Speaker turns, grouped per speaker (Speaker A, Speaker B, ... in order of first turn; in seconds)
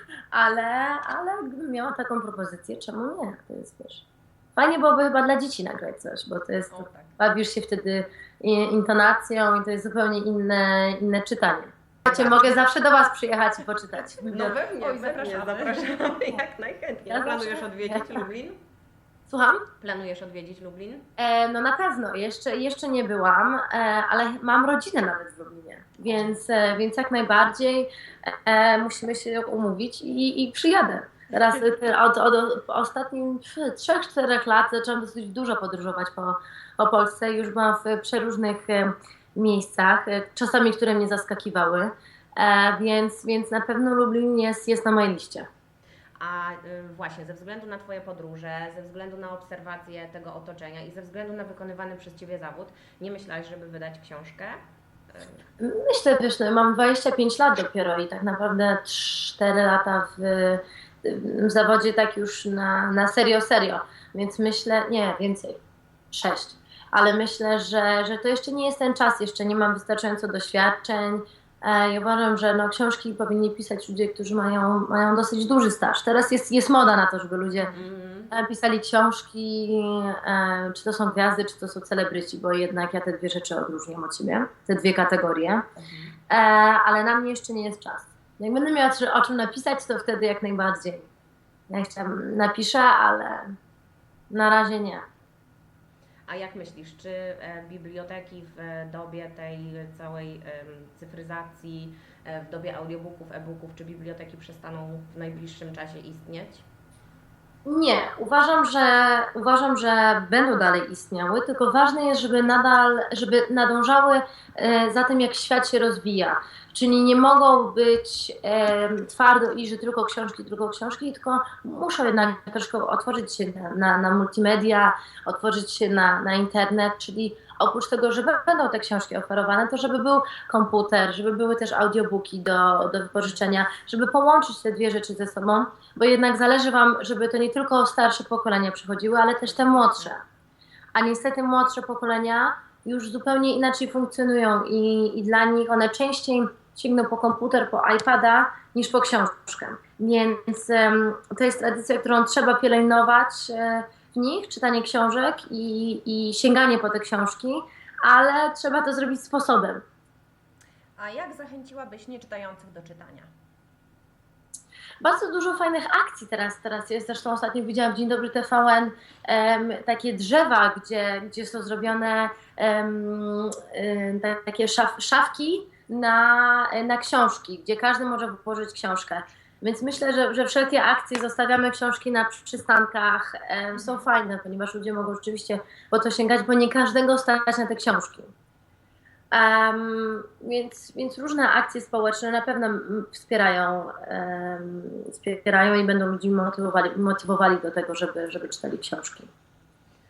Speaker A: 0.3-4.0, 4.6-14.6, 17.1-18.3, 19.3-19.6, 21.2-45.5, 55.6-65.6, 66.1-77.7, 78.3-85.6, 86.3-91.1, 91.7-93.5, 94.3-95.0, 107.7-140.2, 140.9-159.8, 165.0-188.3, 189.3-199.3
Speaker B: 6.7-7.1, 14.8-16.1, 161.0-163.3
Speaker C: 12.1-12.5, 14.3-18.6, 19.8-21.1, 46.2-54.6, 55.1-55.4, 77.7-78.3, 85.8-86.1, 96.3-106.7